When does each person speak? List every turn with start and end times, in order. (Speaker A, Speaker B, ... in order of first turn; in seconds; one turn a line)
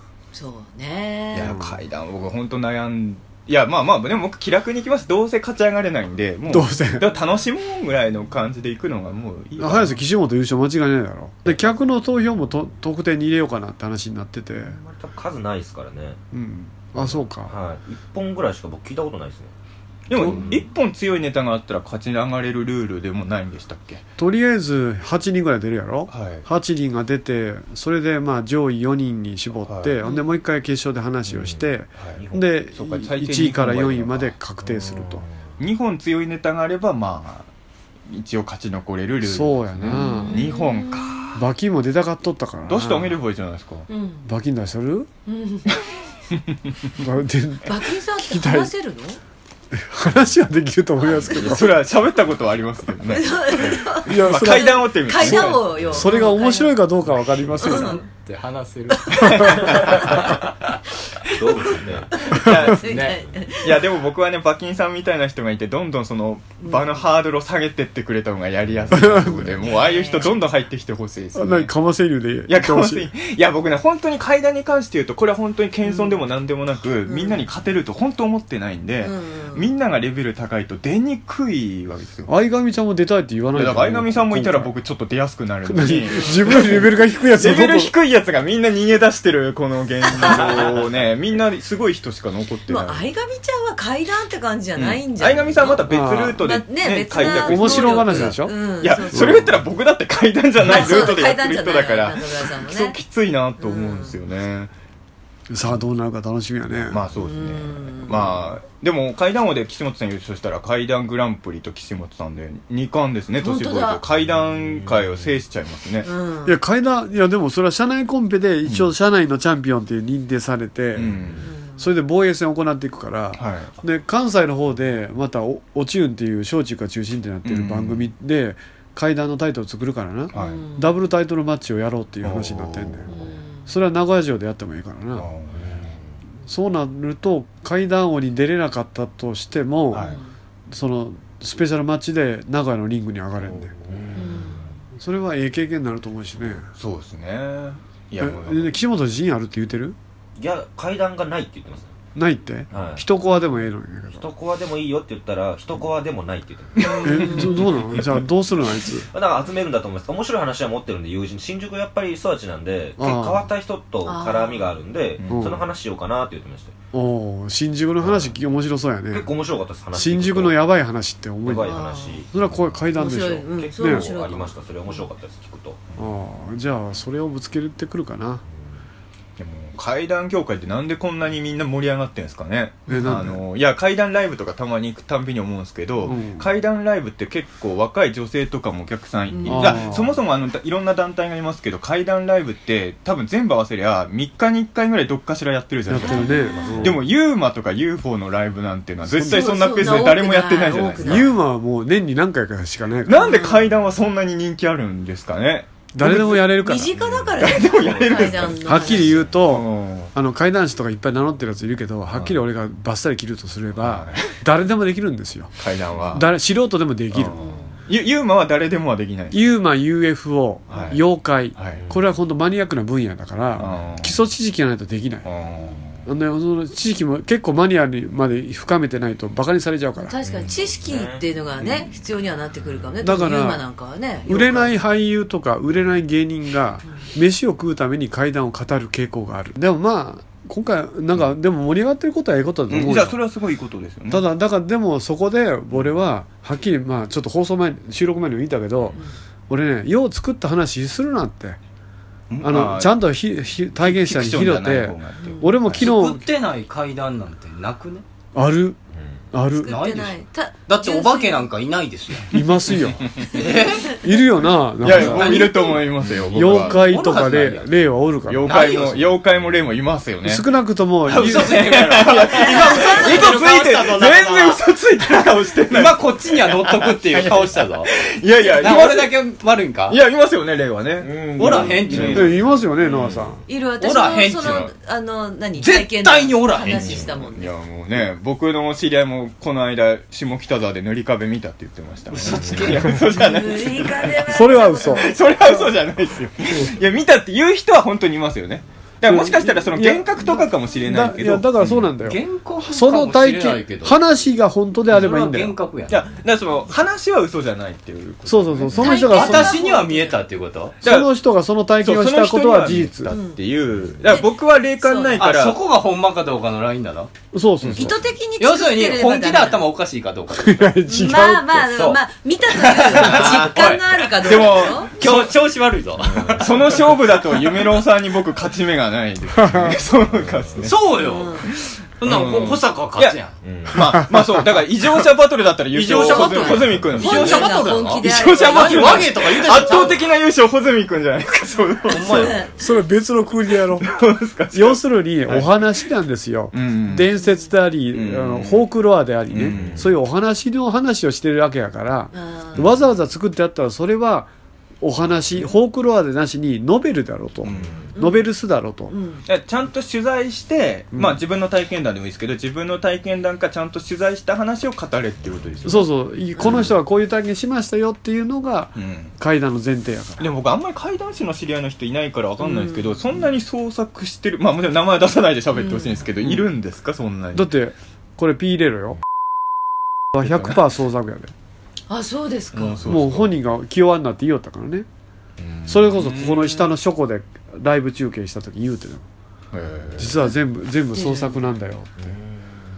Speaker A: 0.3-1.6
Speaker B: 1.3-10.0
Speaker C: 1.4-1.7
Speaker C: 6.5-7.0
Speaker C: 9.6-14.8
Speaker D: 14.6-16.2
Speaker C: 16.3-17.5
Speaker D: 16.9-19.5
Speaker B: 20.1-24.0
Speaker C: 20.1-20.5
Speaker D: 20.1-20.7
Speaker C: 24.2-35.2
Speaker B: 26.1-26.4
Speaker B: 29.6-29.9
Speaker A: 30.0-30.3
Speaker D: 31.3-32.6
Speaker B: 32.8-34.4
Speaker B: 35.6-37.5
Speaker B: 38.1-41.4
Speaker C: 39.2-40.4
Speaker A: 39.9-41.1
Speaker C: 41.3-43.2
Speaker B: 42.7-43.9
Speaker A: 43.9-44.2
Speaker C: 44.2-45.1
Speaker A: 45.3-45.8
Speaker C: 47.0-48.7
Speaker A: 47.7-49.2
Speaker C: 49.7-51.8
Speaker B: 51.2-56.1
Speaker A: 53.1-56.8
Speaker C: 53.9-58.0
Speaker A: 57.6-58.0
Speaker E: 57.6-60.4
Speaker A: 58.9-59.2
Speaker B: 59.1-60.2
Speaker D: 61.4-62.1
Speaker A: 62.2-63.8
Speaker B: 62.3-71.7
Speaker E: 62.8-63.1
Speaker A: 66.6-66.9
Speaker C: 68.9-69.5
Speaker A: 69.7-70.3
Speaker C: 71.3-73.1
Speaker B: 72.5-82.3
Speaker A: 75.8-76.2
Speaker A: 77.0-77.4
Speaker A: 79.0-79.7
Speaker C: 82.3-84.7
Speaker B: 83.5-93.0
Speaker C: 85.7-87.9
Speaker A: 86.1-86.4
Speaker A: 90.1-90.7
Speaker A: 92.7-99.5
Speaker B: 94.8-104.7
Speaker C: 95.9-96.4
Speaker C: 97.2-98.5
Speaker C: 99.1-99.5
Speaker A: 100.6-103.0
Speaker A: 103.6-104.2
Speaker C: 105.5-107.0
Speaker B: 106.8-116.1
Speaker A: 107.2-108.3
Speaker A: 113.4-114.0
Speaker D: 114.4-115.3
Speaker A: 116.0-116.5
Speaker C: 116.4-121.2
Speaker B: 118.6-118.9
Speaker B: 120.9-121.4
Speaker D: 121.2-121.5
Speaker A: 121.4-121.8
Speaker C: 121.8-133.1
Speaker B: 123.3-123.7
Speaker B: 127.4-128.1
Speaker B: 130.3-130.6
Speaker A: 130.3-130.9
Speaker B: 132.2-133.1
Speaker A: 133.1-133.7
Speaker C: 133.7-135.3
Speaker B: 135.1-135.6
Speaker D: 135.5-136.0
Speaker C: 136.4-140.1
Speaker B: 139.9-140.2
Speaker C: 140.7-143.7
Speaker D: 143.8-144.8
Speaker A: 144.2-144.6
Speaker C: 144.9-146.7
Speaker B: 146.8-148.7
Speaker C: 148.2-150.0
Speaker D: 150.4-151.9
Speaker C: 152.2-154.3
Speaker D: 152.7-153.1
Speaker A: 153.3-153.6
Speaker D: 154.1-157.6
Speaker A: 156.8-157.8
Speaker C: 157.0-159.1
Speaker D: 159.1-166.7
Speaker C: 163.0-163.5
Speaker A: 164.0-164.8
Speaker B: 165.2-165.5
Speaker C: 165.3-165.6
Speaker C: 166.9-169.3
Speaker D: 168.0-168.3
Speaker D: 169.1-170.6
Speaker C: 169.9-171.8
Speaker D: 171.4-176.1
Speaker A: 171.6-172.2
Speaker C: 172.3-174.1
Speaker A: 172.9-175.0
Speaker C: 176.0-178.4
Speaker D: 178.4-178.8
Speaker B: 179.4-201.3
Speaker C: 182.9-183.4
Speaker C: 186.0-186.5
Speaker A: 189.3-189.8
Speaker C: 189.4-190.2
Speaker C: 195.9-197.0
Speaker A: 196.2-196.9
Speaker C: 199.1-200.1
Speaker A: 199.3-201.3
Speaker C: 201.0-203.3
Speaker B: 203.1-206.5
Speaker A: 203.1-203.7
Speaker C: 205.9-206.9
Speaker A: 206.5-209.2
Speaker D: 206.9-209.3
Speaker B: 207.4-210.1
Speaker C: 208.6-215.5
Speaker B: 212.1-212.4
Speaker B: 213.8-214.3
Speaker B: 215.6-216.2
Speaker C: 216.1-217.4
Speaker B: 217.1-219.4
Speaker D: 217.4-217.8
Speaker C: 219.3-225.3
Speaker B: 220.7-221.0
Speaker D: 220.7-221.0
Speaker B: 221.6-221.8
Speaker B: 223.6-224.2
Speaker B: 225.2-226.0
Speaker D: 225.6-225.9
Speaker C: 226.1-230.1
Speaker A: 230.0-234.7
Speaker D: 230.3-231.6
Speaker C: 233.0-233.6
Speaker C: 234.2-243.2
Speaker B: 242.7-244.3
Speaker C: 244.1-248.9
Speaker C: 249.5-251.6
Speaker B: 252.3-253.0
Speaker C: 252.4-256.2
Speaker B: 253.8-255.9
Speaker E: 255.7-258.0
Speaker C: 258.3-258.8
Speaker D: 258.9-259.2
Speaker C: 259.3-259.8
Speaker A: 259.6-261.5
Speaker E: 259.6-262.3
Speaker C: 262.3-263.1
Speaker B: 262.4-263.2
Speaker E: 263.3-264.0
Speaker C: 264.0-265.4
Speaker B: 264.8-267.1
Speaker E: 264.9-265.8
Speaker A: 265.3-265.5
Speaker C: 266.3-268.6
Speaker E: 266.4-267.8
Speaker B: 268.3-270.4
Speaker E: 268.4-269.1
Speaker C: 270.2-271.6
Speaker B: 271.1-279.1
Speaker E: 271.1-274.6
Speaker A: 272.3-273.4
Speaker E: 275.7-277.9
Speaker E: 278.5-280.0
Speaker B: 279.9-282.4
Speaker D: 281.0-283.4
Speaker E: 281.4-282.3
Speaker C: 282.1-283.4
Speaker A: 283.5-287.5
Speaker E: 283.8-284.7
Speaker B: 284.4-284.7
Speaker E: 285.6-287.1
Speaker D: 286.7-287.1
Speaker B: 287.0-301.8
Speaker E: 292.1-293.0
Speaker D: 292.3-292.7
Speaker A: 293.1-295.2
Speaker C: 294.2-295.6
Speaker C: 299.1-305.6
Speaker E: 302.0-304.0
Speaker E: 304.9-306.1
Speaker B: 305.9-309.4
Speaker C: 308.2-309.6
Speaker A: 308.8-310.2
Speaker E: 308.9-310.8
Speaker B: 310.8-311.1
Speaker C: 310.8-313.1
Speaker B: 311.8-315.6
Speaker A: 313.1-313.4
Speaker A: 314.1-315.3
Speaker E: 315.2-317.1
Speaker C: 317.3-318.0
Speaker B: 317.6-317.9
Speaker A: 317.7-319.6
Speaker E: 318.4-320.7
Speaker C: 320.3-321.7
Speaker A: 320.9-324.9
Speaker D: 321.7-322.0
Speaker E: 322.5-326.4
Speaker B: 323.0-323.6
Speaker B: 324.2-325.3
Speaker D: 326.0-326.5
Speaker B: 326.4-331.0
Speaker C: 329.4-329.7
Speaker D: 330.1-330.7
Speaker E: 330.6-331.4
Speaker A: 331.0-331.5
Speaker E: 332.0-333.4
Speaker B: 332.0-333.2
Speaker D: 333.4-333.9
Speaker B: 333.7-342.3
Speaker C: 333.9-334.4
Speaker E: 335.7-340.1
Speaker A: 335.9-339.8
Speaker A: 341.9-342.5
Speaker E: 341.9-342.4
Speaker C: 342.6-343.9
Speaker B: 343.8-345.5
Speaker C: 344.5-354.3
Speaker B: 346.5-347.1
Speaker B: 347.9-348.6
Speaker B: 349.3-349.9
Speaker D: 349.4-349.9
Speaker A: 352.1-352.6
Speaker C: 354.8-358.9
Speaker B: 357.4-357.7
Speaker D: 357.4-357.9
Speaker A: 358.0-358.3
Speaker A: 358.9-359.2
Speaker B: 359.3-366.7
Speaker C: 360.9-361.2
Speaker C: 365.6-370.3
Speaker B: 368.8-369.1
Speaker B: 370.2-377.5
Speaker A: 372.4-372.9
Speaker A: 375.5-376.0
Speaker C: 377.3-379.0
Speaker C: 380.1-381.3
Speaker B: 380.2-380.6
Speaker A: 381.9-382.8
Speaker B: 382.5-383.4
Speaker C: 382.8-384.9
Speaker B: 385.4-386.7
Speaker C: 385.6-389.1
Speaker B: 389.5-390.2
Speaker C: 390.0-392.0
Speaker A: 390.9-391.4
Speaker D: 392.2-392.5